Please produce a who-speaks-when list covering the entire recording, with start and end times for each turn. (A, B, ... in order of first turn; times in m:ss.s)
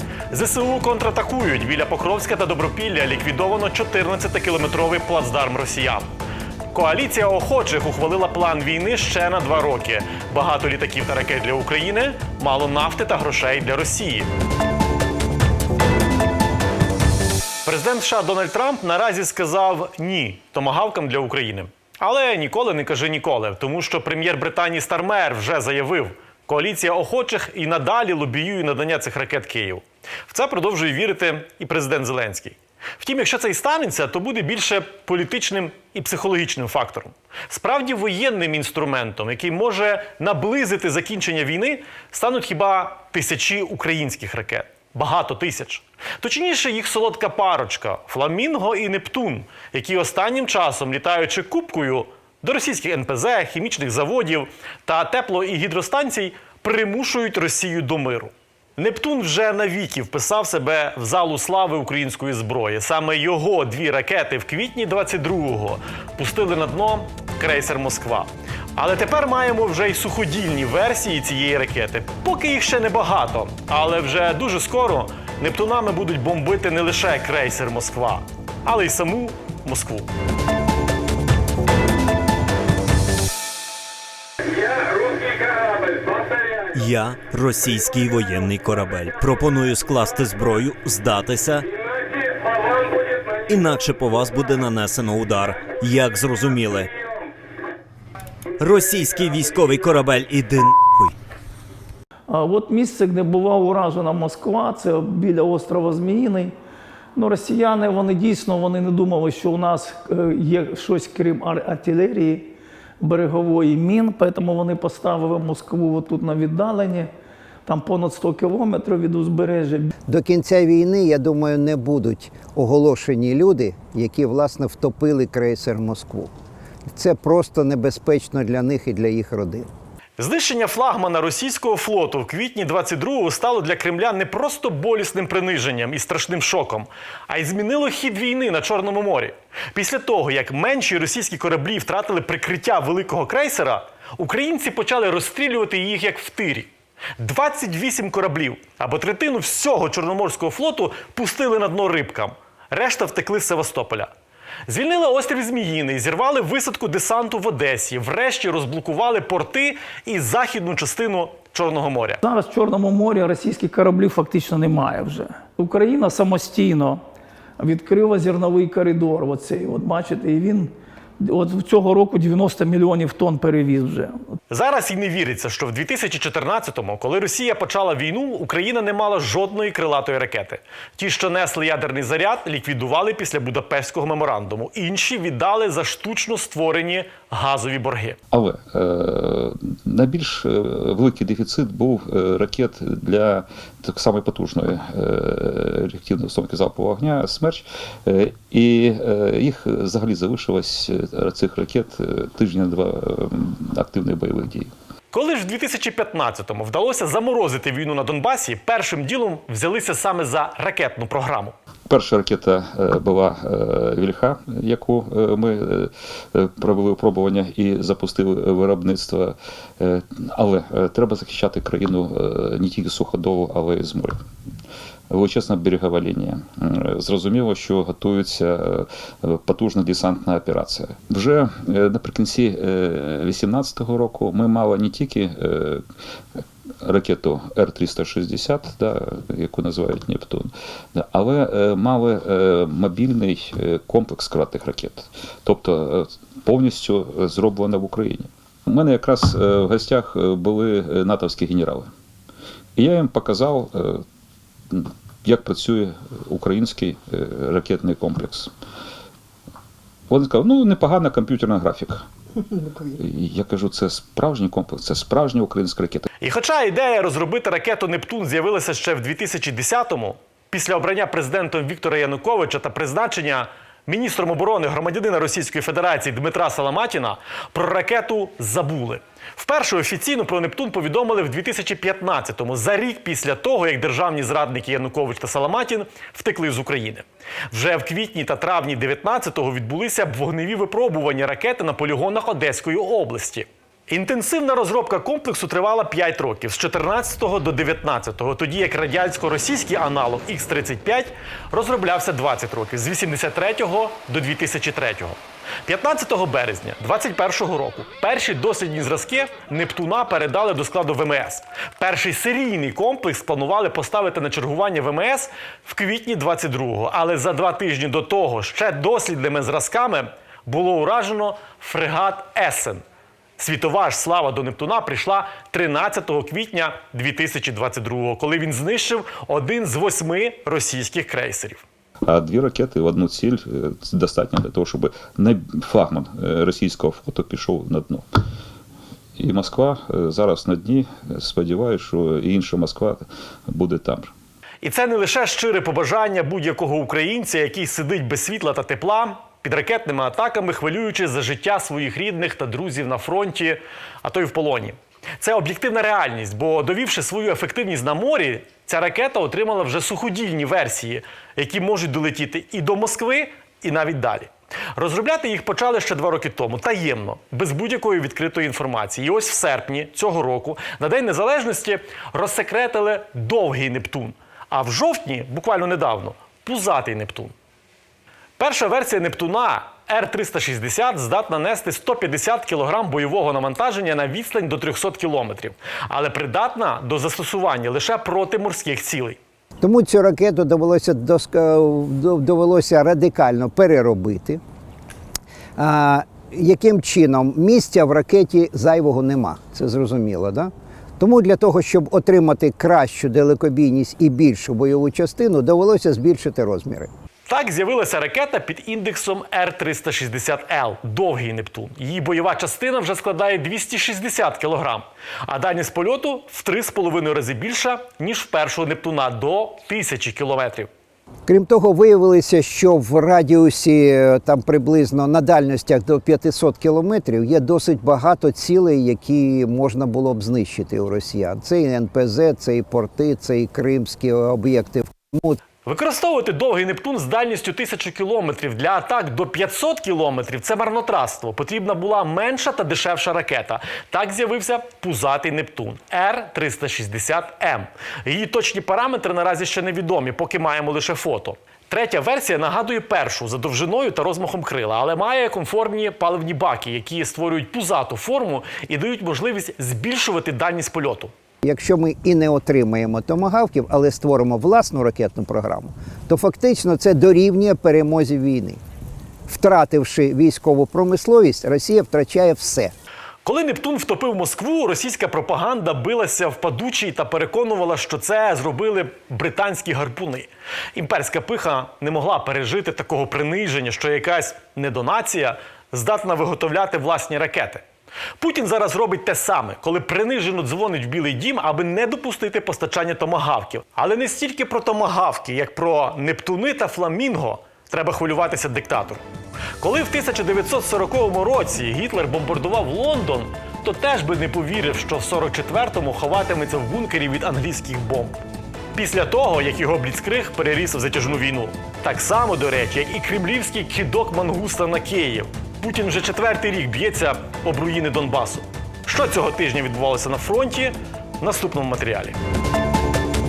0:00.3-0:06.1 A
0:06.7-0:14.3 A
0:17.6-1:20.1 A
1:26.7-1:31.7 B
1:33.5-1:37.0 B
1:38.6-1:41.2 B
1:42.3-1:46.6 C
1:47.2-1:57.1 C
1:57.7-1:59.9 C
2:00.1-2:06.3 D
2:06.9-2:09.7 D
2:10.2-2:34.1 A
2:34.7-2:42.2 A
2:42.2-2:47.0 C
2:47.6-2:54.2 C
2:54.5-3:08.2 A
3:08.3-3:24.7 E
3:25.1-3:31.5 A
3:31.9-3:44.2 E
3:45.1-3:55.8 E
3:56.4-4:11.9 E
4:12.8-4:14.0 E
4:14.7-4:18.5 E
4:20.1-4:22.1 E
4:22.6-4:26.0 E
4:26.2-5:22.8 A
5:23.4-5:31.6 A
5:32.0-5:38.2 E
5:39.2-5:44.1 E
5:44.6-6:17.3 A
6:18.4-6:29.2 A
6:29.6-6:34.4 D
6:35.6-6:46.9 D
6:47.3-7:00.7 A
7:01.3-7:15.4 D
7:15.6-7:41.1 A
7:41.4-7:48.6 D
7:49.3-7:52.7 D
7:53.2-8:07.6 A
8:08.2-8:19.0 A
8:19.6-8:28.2 A
8:28.8-8:42.2 A